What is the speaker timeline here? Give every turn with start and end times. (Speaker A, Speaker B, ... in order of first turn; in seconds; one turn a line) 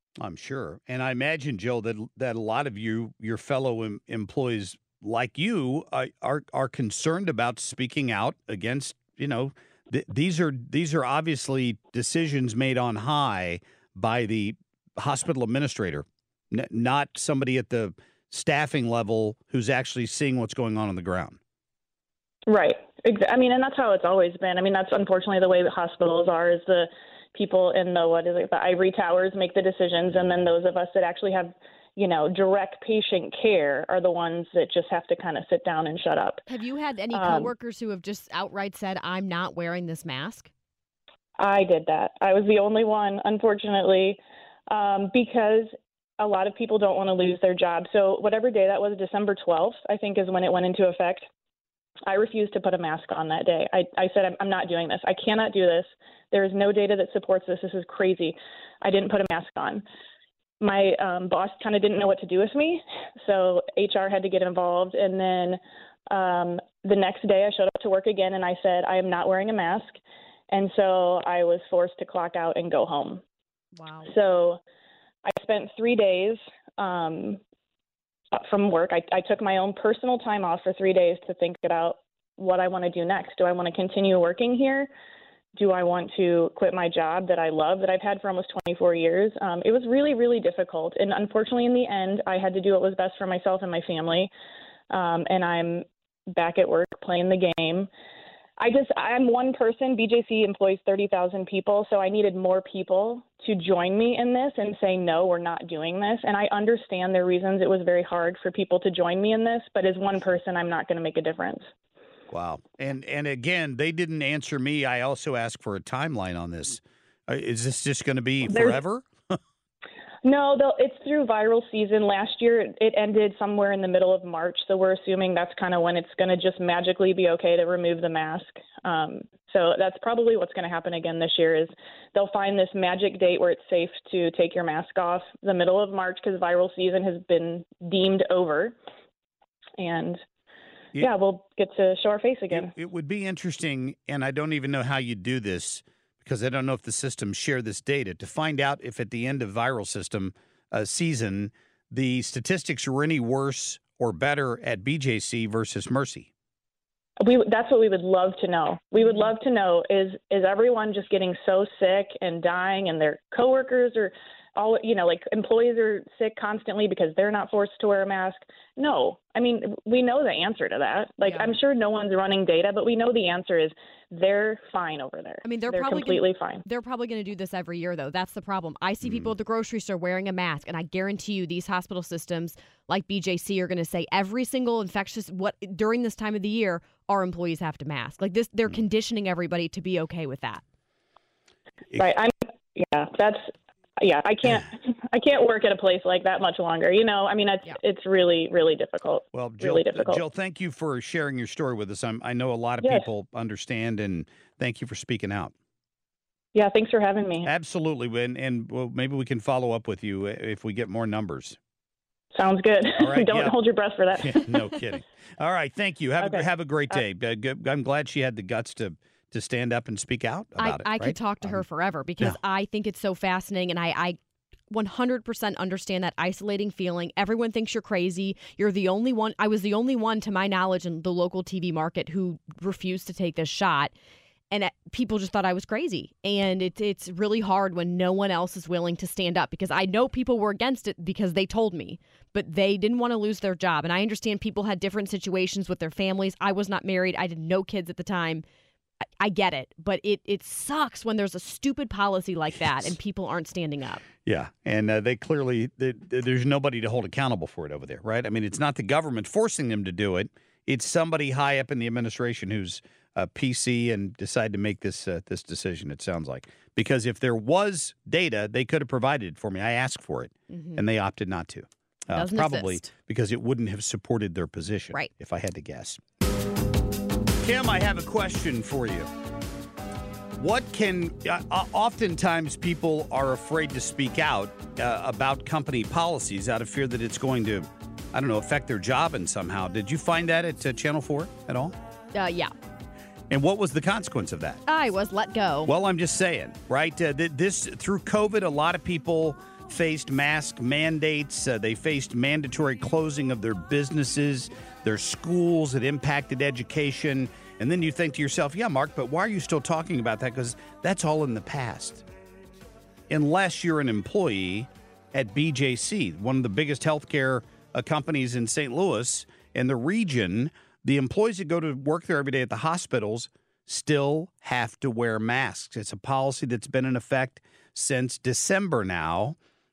Speaker A: 0.2-21.4
Speaker B: 22.5-36.4
Speaker C: 36.5-40.5
Speaker B: 37.1-37.5
Speaker B: 41.4-51.2
Speaker B: 52.0-59.8
Speaker B: 60.6-70.0
Speaker B: 70.5-73.2
Speaker C: 73.8-74.1
Speaker B: 74.0-74.6
Speaker B: 75.2-77.4
Speaker B: 78.3-84.9
Speaker B: 85.5-94.3
Speaker B: 94.9-97.9
Speaker B: 98.6-111.7
Speaker A: 112.3-119.4
Speaker B: 118.5-118.8
Speaker B: 120.2-138.8
Speaker B: 139.8-140.2
Speaker B: 141.0-142.7
Speaker A: 142.5-156.3
Speaker B: 157.2-176.6
Speaker C: 171.2-171.5
Speaker C: 175.4-190.6
Speaker B: 191.9-200.2
Speaker A: 199.3-205.5
Speaker B: 202.8-203.1
Speaker B: 206.5-207.5
Speaker A: 207.4-211.6
Speaker B: 212.3-214.5
Speaker A: 213.0-213.5
Speaker A: 214.1-221.6
Speaker B: 216.2-217.0
Speaker C: 220.6-224.2
Speaker C: 224.7-233.9
Speaker C: 234.5-248.4
Speaker C: 249.2-254.0
Speaker A: 254.2-276.0
Speaker C: 270.5-270.8
Speaker C: 272.1-272.9
Speaker A: 277.4-279.1
Speaker A: 280.4-291.7
Speaker C: 292.1-292.5
Speaker A: 293.3-294.6
Speaker C: 294.7-295.7
Speaker A: 295.6-312.0
Speaker A: 313.1-329.4